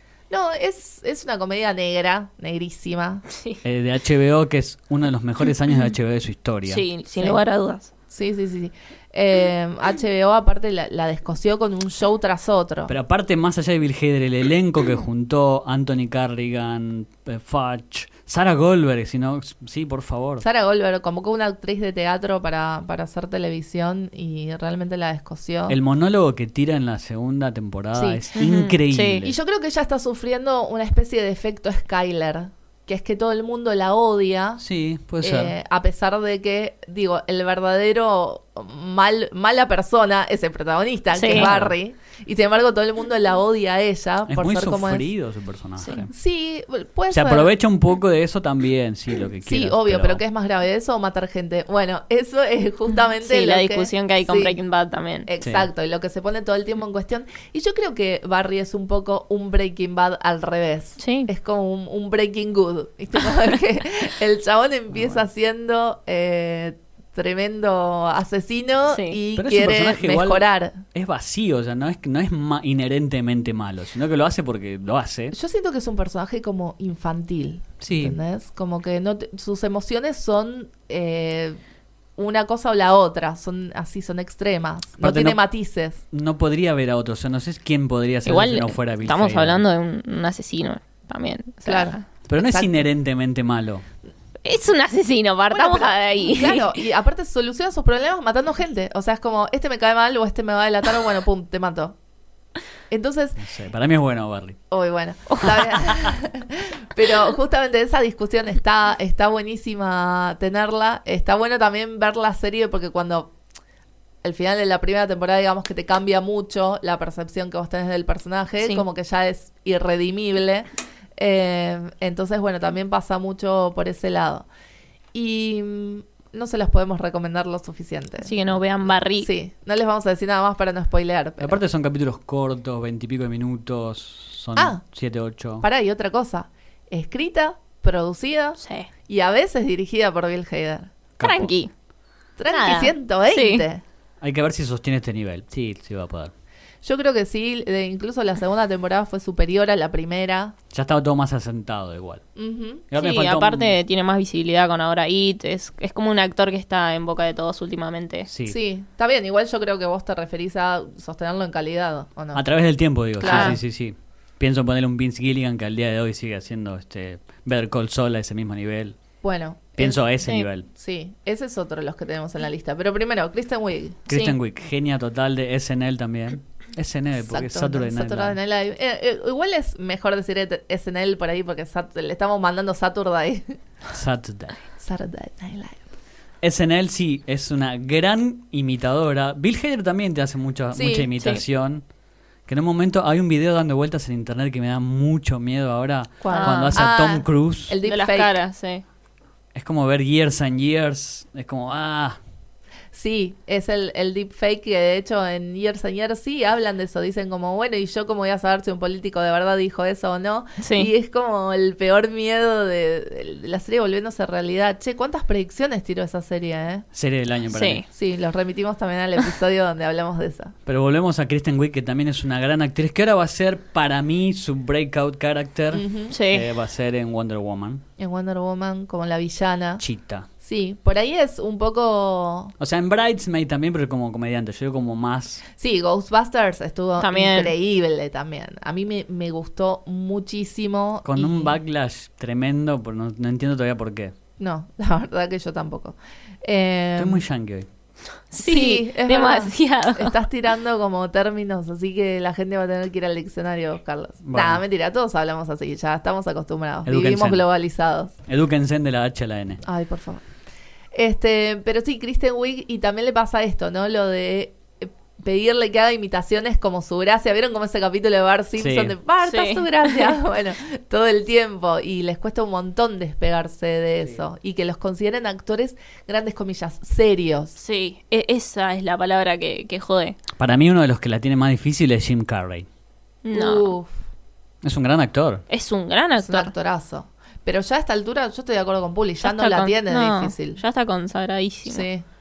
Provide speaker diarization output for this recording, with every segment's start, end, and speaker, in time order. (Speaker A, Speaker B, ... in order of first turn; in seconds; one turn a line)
Speaker A: 0.3-3.2
Speaker B: 3.3-3.6
Speaker C: 3.6-6.8
Speaker B: 6.7-7.9
Speaker A: 8.1-12.9
Speaker C: 12.9-20.4
Speaker A: 20.4-25.8
Speaker C: 25.7-29.4
Speaker A: 27.9-28.2
Speaker B: 28.4-29.2
Speaker A: 29.2-34.6
Speaker C: 34.6-35.5
Speaker A: 35.2-45.1
Speaker B: 41.1-41.5
Speaker C: 41.3-41.7
Speaker C: 44.3-46.1
Speaker A: 46.1-47.5
Speaker C: 47.1-50.2
Speaker A: 49.4-54.6
Speaker B: 53.2-55.3
Speaker A: 55.3-70.8
Speaker C: 55.4-55.7
Speaker B: 61.0-61.3
Speaker C: 65.0-65.2
Speaker B: 68.9-69.2
Speaker C: 69.4-75.3
Speaker A: 75.3-81.6
Speaker C: 77.8-78.2
Speaker A: 82.2-86.0
Speaker C: 85.0-85.4
Speaker C: 86.1-89.6
Speaker B: 88.3-92.0
Speaker A: 91.7-92.8
Speaker C: 92.3-93.8
Speaker B: 94.5-96.8
Speaker A: 95.5-102.0
Speaker A: 102.9-103.4
Speaker C: 103.4-104.6
Speaker A: 104.7-113.3
Speaker C: 105.9-106.1
Speaker A: 114.2-124.5
Speaker A: 125.1-128.3
Speaker B: 128.2-129.3
Speaker A: 129.2-131.6
Speaker C: 131.4-135.7
Speaker A: 134.6-134.8
Speaker A: 135.6-140.9
Speaker B: 138.6-138.9
Speaker C: 141.2-141.5
Speaker B: 141.2-141.7
Speaker A: 142.4-143.8
Speaker B: 142.5-143.7
Speaker C: 144.2-146.3
Speaker A: 146.8-150.6
Speaker C: 150.7-152.2
Speaker A: 152.4-152.9
Speaker C: 152.9-153.8
Speaker B: 153.0-158.3
Speaker C: 158.3-158.6
Speaker A: 158.4-162.5
Speaker C: 162.3-169.0
Speaker A: 163.2-163.6
Speaker B: 163.3-163.6
Speaker A: 169.2-170.1
Speaker C: 169.8-170.7
Speaker A: 170.7-174.0
Speaker C: 174.1-178.4
Speaker B: 174.1-174.3
Speaker A: 177.2-183.6
Speaker C: 183.9-184.6
Speaker A: 184.8-185.9
Speaker C: 186.4-191.8
Speaker A: 190.7-191.1
Speaker C: 192.5-197.8
Speaker A: 196.2-198.4
Speaker B: 196.3-196.8
Speaker B: 197.9-198.8
Speaker C: 199.5-202.2
Speaker A: 202.9-216.9
Speaker B: 210.6-210.9
Speaker C: 216.9-217.8
Speaker B: 217.5-217.8
Speaker A: 217.9-220.5
Speaker C: 220.7-227.8
Speaker A: 225.7-226.2
Speaker B: 226.1-226.5
Speaker A: 228.0-229.8
Speaker C: 229.8-230.3
Speaker A: 230.4-232.6
Speaker C: 232.6-235.4
Speaker A: 235.6-241.5
Speaker B: 237.0-237.5
Speaker C: 241.1-244.2
Speaker A: 244.4-247.2
Speaker C: 247.0-247.7
Speaker B: 248.3-250.2
Speaker A: 248.4-258.1
Speaker C: 254.2-254.6
Speaker C: 256.9-257.4
Speaker C: 258.3-259.6
Speaker A: 259.6-260.2
Speaker A: 260.9-277.6
Speaker C: 268.6-269.0
Speaker B: 269.2-270.2
Speaker B: 277.6-280.2
Speaker C: 280.4-282.7
Speaker B: 283.2-283.7
Speaker A: 283.3-283.9
Speaker C: 284.6-285.4
Speaker B: 285.5-286.5
Speaker A: 286.2-290.6
Speaker B: 289.2-291.9
Speaker A: 291.7-292.0